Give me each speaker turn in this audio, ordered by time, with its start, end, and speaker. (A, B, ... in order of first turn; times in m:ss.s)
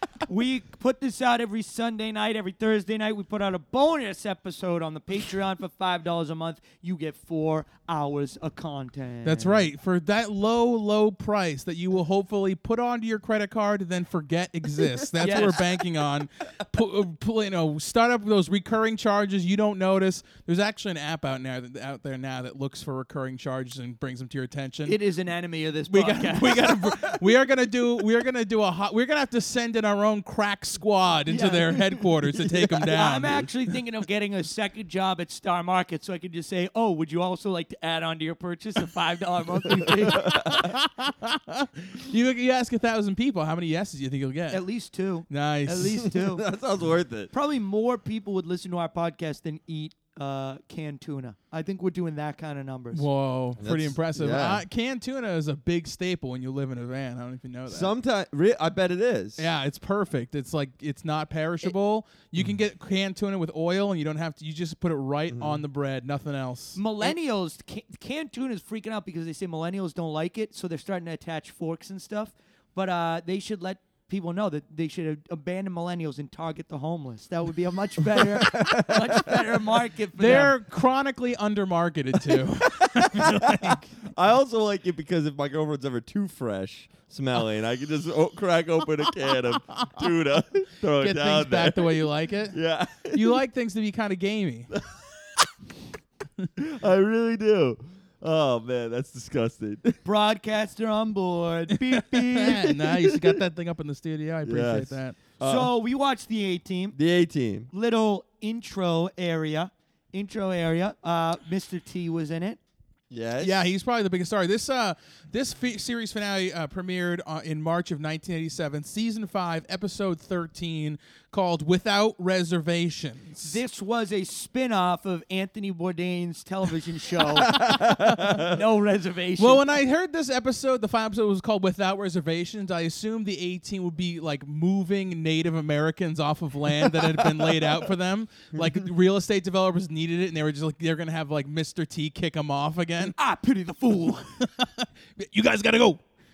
0:00.3-0:09.7 A
0:09.2-0:25.0 B
0:15.2-0:15.6 A
0:24.9-0:27.2 A
0:25.9-0:33.4 B
0:31.3-0:31.8 A
0:32.3-0:33.4 C
0:32.9-0:40.4 A
0:40.0-0:40.7 C
0:40.2-0:44.6 B
0:44.5-0:46.4 A
0:45.3-0:46.1 B
0:46.1-0:47.3 C
0:47.3-0:53.1 A
0:52.9-0:57.9 B
0:53.6-0:54.6 C
0:57.7-0:59.4 C
0:59.4-1:06.8 B
1:05.3-1:05.6 C
1:06.8-1:20.6 A
1:18.1-1:19.4 C
1:20.2-1:23.9 B
1:22.3-1:33.4 C
1:29.0-1:30.0 B
1:31.0-1:32.6 B
1:33.1-1:34.7 B
1:34.7-1:35.5 C
1:36.6-1:40.0 C
1:40.0-1:42.7 A
1:42.0-1:45.2 B
1:42.4-1:43.4 C
1:44.4-1:45.7 C
1:45.4-1:47.0 A
1:47.0-1:47.7 C
1:47.7-1:52.6 A
1:53.1-1:53.7 C
1:53.4-2:03.6 B
2:03.4-2:09.6 A
2:07.3-2:08.6 C
2:09.4-2:23.2 B
2:16.9-2:17.8 C
2:23.2-2:24.3 A
2:24.4-2:26.0 B